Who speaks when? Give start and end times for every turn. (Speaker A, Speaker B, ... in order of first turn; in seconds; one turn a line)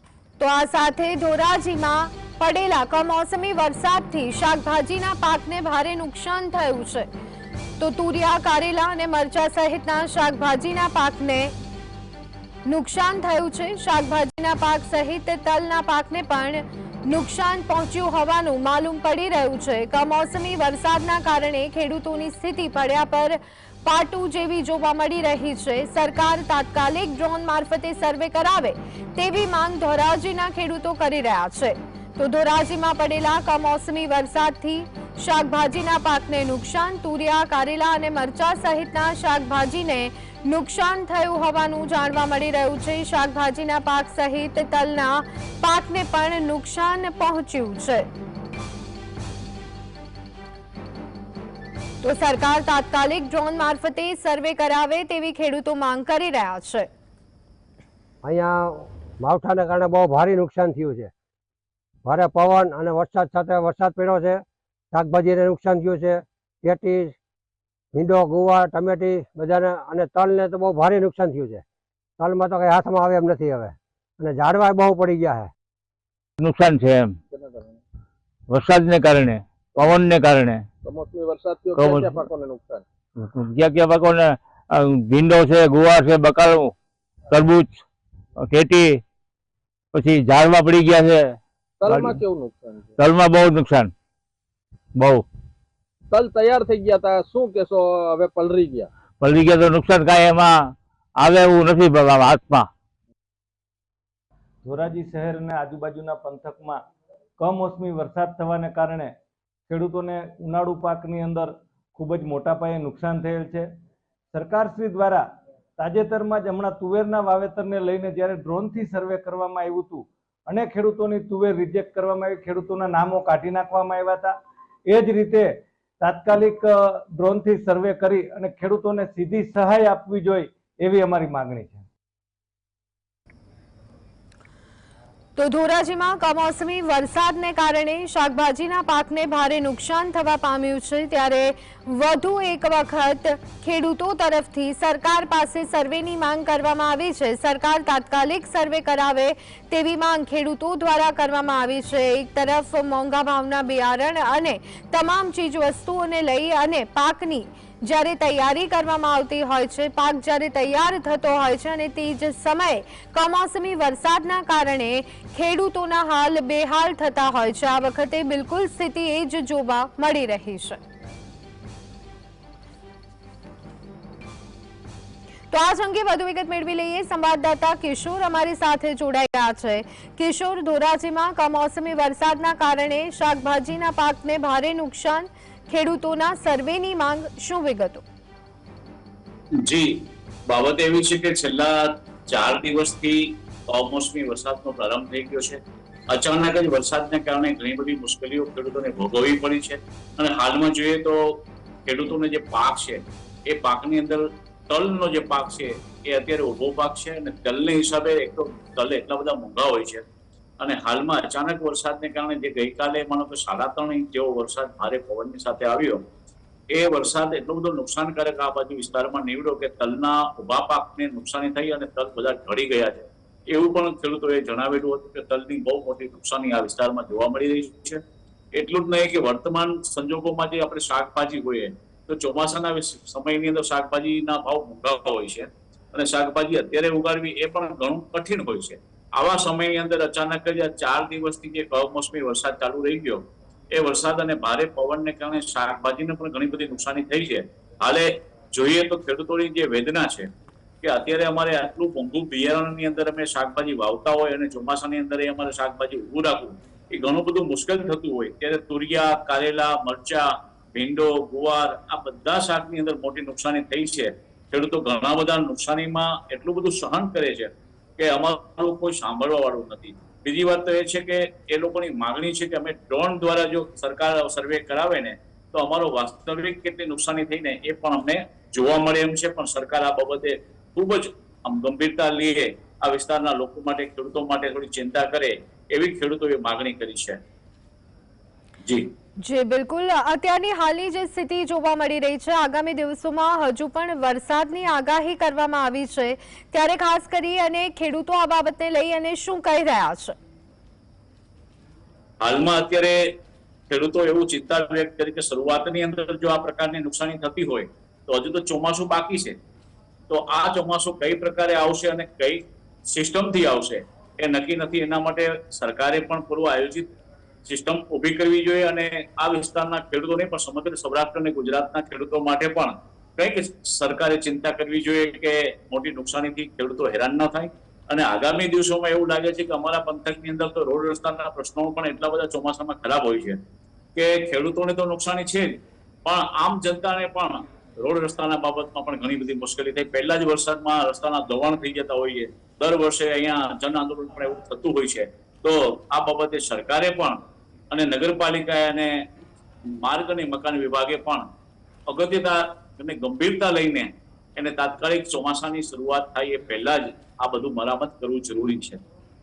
Speaker A: 0.4-7.1
Speaker A: 7.8-11.5
Speaker A: 12.7-48.1
Speaker A: 52.0-56.9
Speaker B: 58.2-61.1
Speaker B: 62.0-67.2
Speaker B: 67.9-71.6
Speaker B: 72.2-75.5
Speaker C: 76.4-77.2
Speaker D: 77.3-77.8
Speaker C: 78.5-80.7
Speaker D: 80.8-82.8
Speaker C: 81.8-82.2
Speaker C: 83.2-86.8
Speaker C: 87.3-87.8
Speaker C: 88.4-89.0
Speaker C: 89.9-92.2
Speaker D: 91.8-93.0
Speaker C: 93.0-93.9
Speaker C: 95.0-95.3
Speaker D: 96.1-98.9
Speaker C: 99.2-102.7
Speaker E: 104.6-106.8
Speaker E: 107.4-109.1
Speaker E: 109.7-113.7
Speaker E: 114.3-115.2
Speaker E: 115.8-124.3
Speaker E: 124.9-131.8
Speaker A: 135.4-170.8
Speaker A: 175.5-188.0
Speaker F: 189.6-189.9
Speaker F: 190.5-210.1
Speaker F: 210.6-216.0
Speaker F: 216.7-228.0
Speaker F: 228.6-250.3
Speaker F: 250.8-287.2
Speaker F: 288.6-288.9
Speaker A: 289.2-300.2
Speaker F: 302.2-303.1
Speaker F: 303.7-309.4
Speaker F: 310.1-316.9
Speaker F: 317.5-333.4
Speaker F: 333.9-349.0
Speaker F: 349.7-351.3
Speaker F: 351.9-358.8